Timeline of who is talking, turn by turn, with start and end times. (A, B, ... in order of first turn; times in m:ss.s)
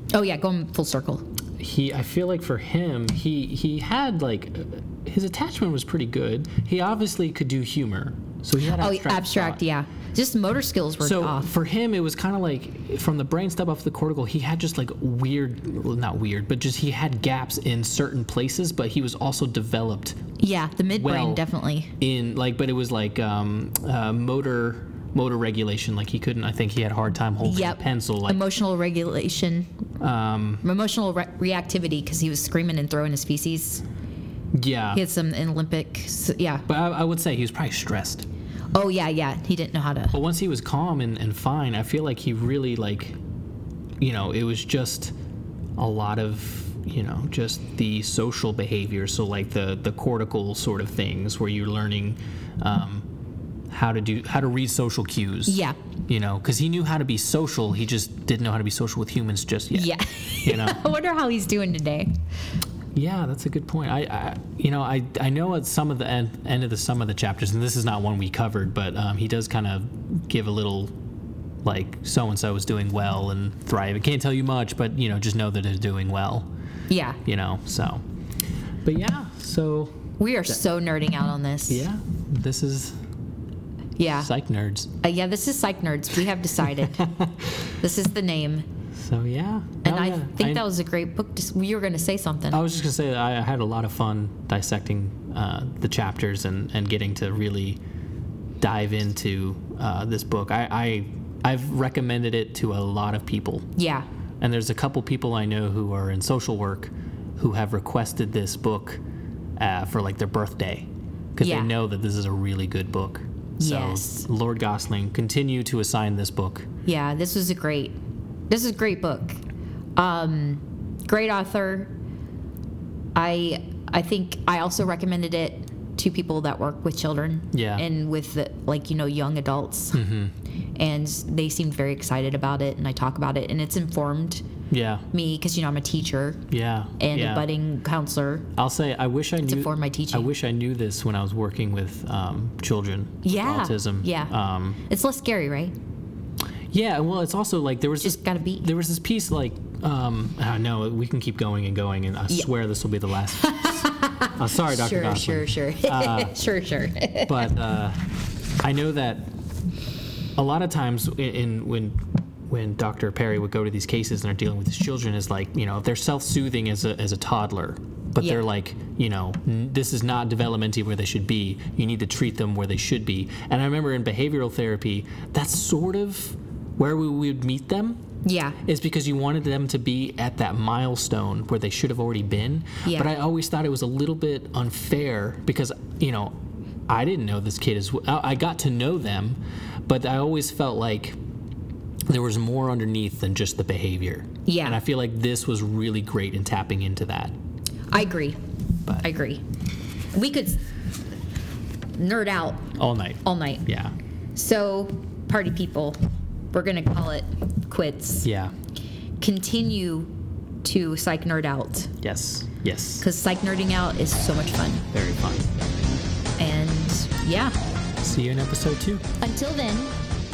0:00.1-0:01.2 A
0:01.6-0:09.6 B
0:08.6-0:11.5 A
0:11.0-0:20.2 B
0:20.4-0:21.9 A
0:20.9-0:21.4 B
0:22.0-0:28.4 B
0:27.4-0:29.7 A
0:30.0-0:30.6 B
0:30.6-0:33.8 A
0:34.5-0:35.0 B
0:34.9-0:36.6 A
0:36.7-0:38.2 B
0:38.7-0:40.2 A
0:40.1-0:43.2 B
0:44.0-0:45.1 B
0:45.8-0:53.0 B
0:53.7-1:00.8 B
0:55.4-0:55.8 A
0:59.7-1:02.2 A
1:02.9-1:10.9 B
1:11.6-1:16.5 B
1:16.9-1:17.2 A
1:17.2-1:18.0 B
1:18.8-1:20.0 B
1:20.2-1:21.8 A
1:21.7-1:23.0 B
1:24.0-1:24.3 A
1:24.2-1:24.9 B
1:25.0-1:27.1 A
1:26.8-1:27.6 B
1:27.8-1:28.7 A
1:29.0-1:30.6 B
1:29.8-1:32.6 A
1:32.5-1:37.8 B
1:38.6-1:43.7 B
1:43.8-1:44.0 A
1:44.4-1:49.0 B
1:49.6-1:56.7 B
1:51.4-1:51.7 A
1:53.6-1:54.2 A
1:56.8-1:58.0 A
1:58.5-1:59.4 A
2:00.0-2:01.9 A
2:03.2-2:10.0 A
2:07.5-2:07.8 B
2:09.9-2:10.3 B
2:10.8-2:14.4 A
2:14.7-2:15.0 B
2:15.1-2:16.4 A
2:16.5-2:17.5 B
2:17.0-2:18.5 A
2:18.6-2:24.8 B
2:19.4-2:20.3 A
2:23.2-2:24.3 A
2:24.8-2:25.7 A
2:26.7-2:36.4 B
2:28.0-2:28.7 A
2:33.4-2:37.5 A
2:37.2-2:38.0 B
2:38.6-2:39.3 B
2:40.4-2:58.0 B
2:48.2-2:48.4 A
2:58.2-2:58.6 A
2:58.6-3:06.4 B
3:02.8-3:03.1 A
3:06.9-3:11.2 B
3:12.1-3:17.4 B
3:14.4-3:14.8 A
3:17.9-3:18.4 A
3:19.0-3:19.4 A
3:20.1-3:20.6 A
3:21.9-3:23.6 A
3:22.8-3:23.9 B
3:24.3-3:26.0 A
3:26.5-3:28.3 A
3:28.2-3:28.5 B
3:29.2-3:30.1 A
3:30.6-3:31.9 A
3:32.0-3:33.0 B
3:33.0-3:34.8 A
3:34.9-3:35.5 B
3:36.4-3:37.6 A
3:38.0-3:39.0 B
3:39.2-3:39.9 A